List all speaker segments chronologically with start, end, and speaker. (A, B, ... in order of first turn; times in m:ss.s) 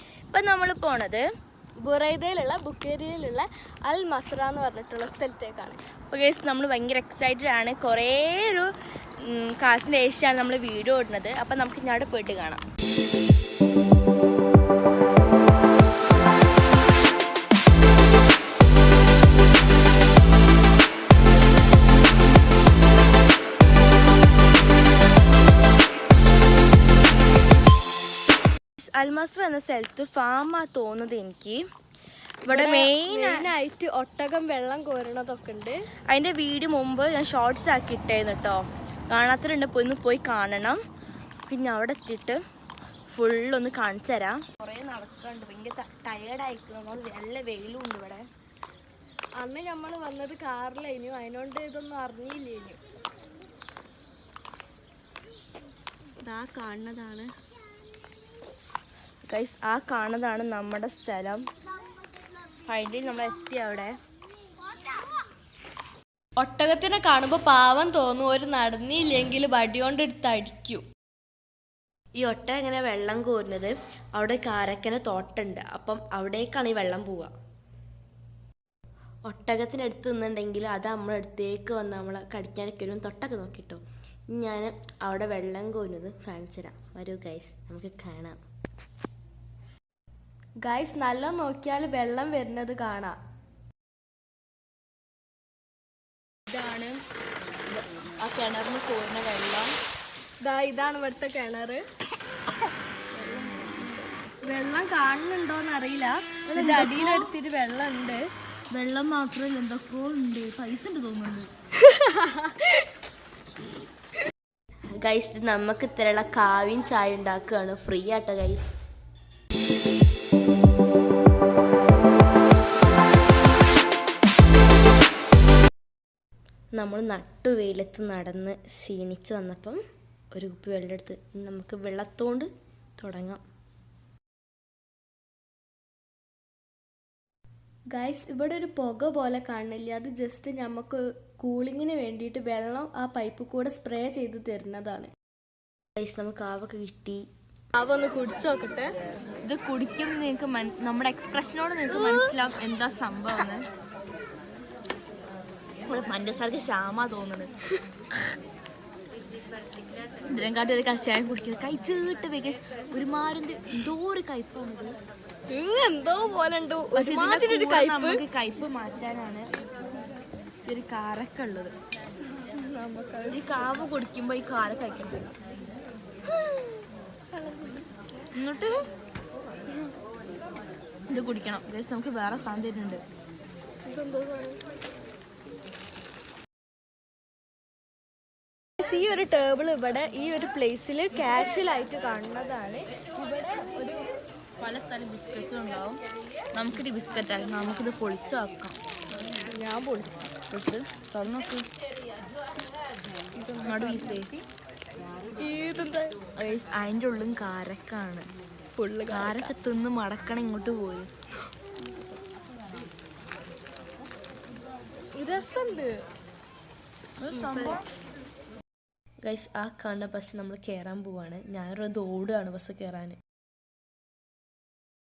0:00.3-0:01.2 A
0:01.8-0:05.8 B
0:06.1-0:12.6 A
0:28.8-0:31.6 A
0:32.4-0:33.4 A
0:32.5-0:35.8 B
0:36.1-0:40.8 A
0:41.5-0:42.4 A
0:43.1-0:48.2 A
0:49.4-0:52.8 B
0:56.2-0:57.3 B
0:59.3-1:01.4 A
1:02.6-1:03.9 A
1:06.4-1:10.8 B
1:12.2-1:17.3 A
1:19.3-1:23.8 A
1:24.3-1:28.4 A
1:30.6-1:33.2 B
1:36.5-1:37.0 A
1:37.7-1:39.7 A
1:40.4-1:41.8 B
1:43.1-1:48.2 B
1:46.5-1:47.3 A
1:48.7-1:51.5 A
1:51.8-1:52.8 B
1:54.9-1:58.7 A
2:06.7-2:09.8 A
2:10.3-2:13.4 A
2:17.9-2:25.1 B
2:26.0-2:27.2 A
2:27.7-2:28.9 B
2:29.4-2:33.7 A
2:35.8-2:37.5 A
2:40.3-2:45.0 A
2:45.5-2:48.2 B
2:46.9-2:49.5 A
2:50.6-2:51.7 A
2:52.4-2:53.4 B
2:53.3-2:55.3 A
2:56.3-2:56.7 B
2:57.3-2:57.9 B
2:58.4-2:58.8 A
3:01.1-3:03.0 A
3:03.9-3:04.6 B
3:08.8-3:14.0 B
3:14.6-3:16.0 A
3:16.5-3:18.8 A
3:19.5-3:20.3 B
3:20.5-3:21.7 A
3:23.3-3:24.3 B
3:23.6-3:24.4 A
3:25.4-3:26.1 B
3:26.4-3:28.3 A
3:28.8-3:29.5 B
3:29.1-3:31.1 A
3:35.1-3:36.0 B
3:37.2-3:37.8 A
3:37.3-3:37.8 B
3:39.2-3:43.2 A